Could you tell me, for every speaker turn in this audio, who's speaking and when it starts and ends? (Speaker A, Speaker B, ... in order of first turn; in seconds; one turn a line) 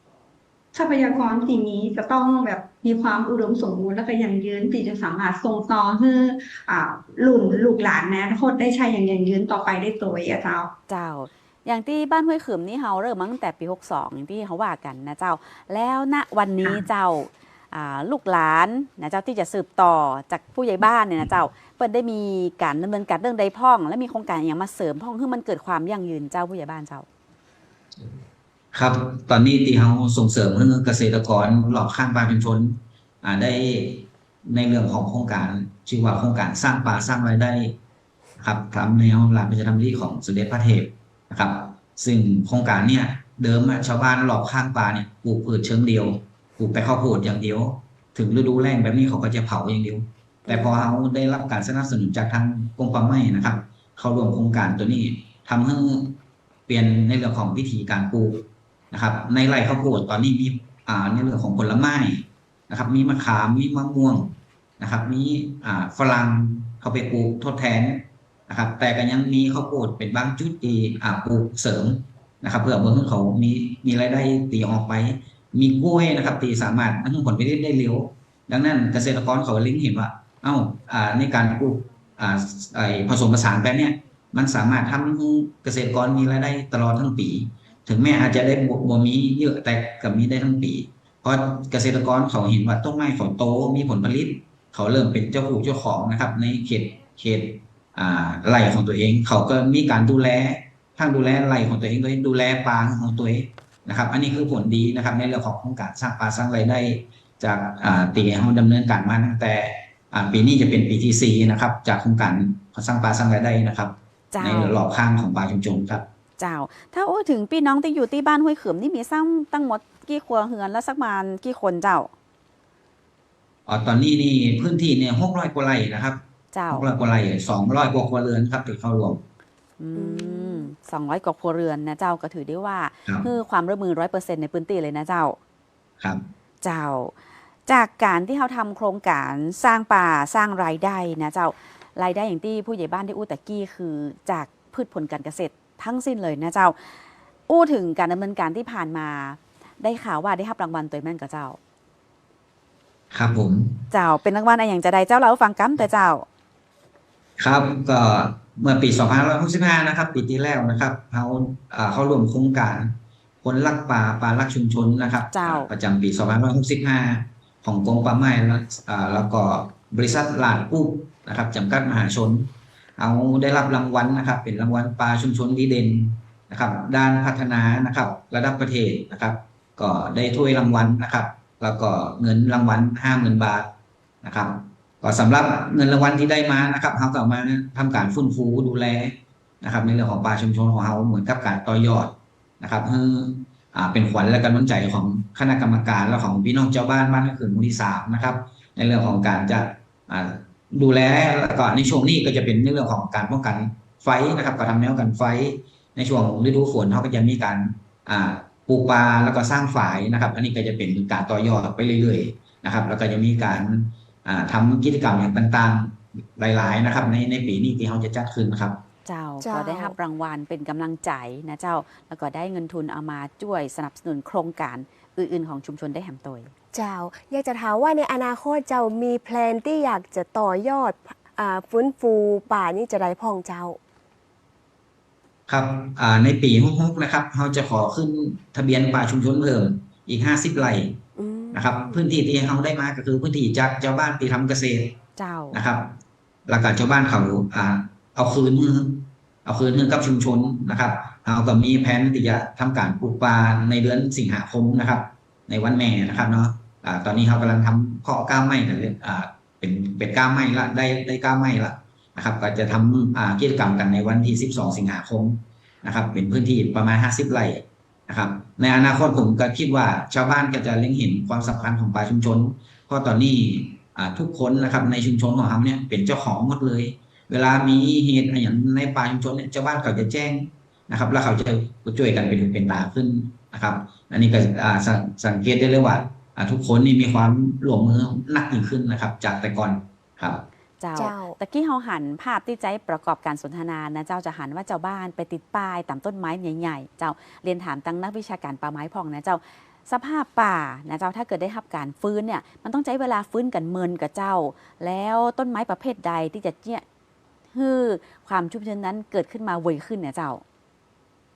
Speaker A: 0.7-10.7
Speaker B: 10.9-27.1
Speaker C: 28.7-37.8
Speaker C: 38.4-116.1
Speaker D: 50.5-50.9
Speaker B: 114.3-114.8
Speaker B: 116.4-122.1
Speaker C: 123.7-129.2
Speaker B: 126.5-126.9
Speaker B: 129.8-135.4
Speaker D: 129.9-130.7
Speaker B: 136.6-137.1
Speaker B: 137.7-151.6
Speaker C: 153.1-153.8
Speaker B: 153.9-156.3
Speaker C: 157.4-218.8
Speaker B: 165.3-165.7
Speaker B: 219.1-226.5
Speaker D: 219.4-219.9
Speaker D: 226.7-233.8
Speaker C: 235.5-241.0
Speaker D: 241.2-242.0
Speaker C: 241.5-245.0
Speaker B: 245.2-245.6
Speaker C: 245.5-290.4
Speaker B: 290.8-306.8
Speaker D: 290.9-291.4
Speaker B: 307.5-310.4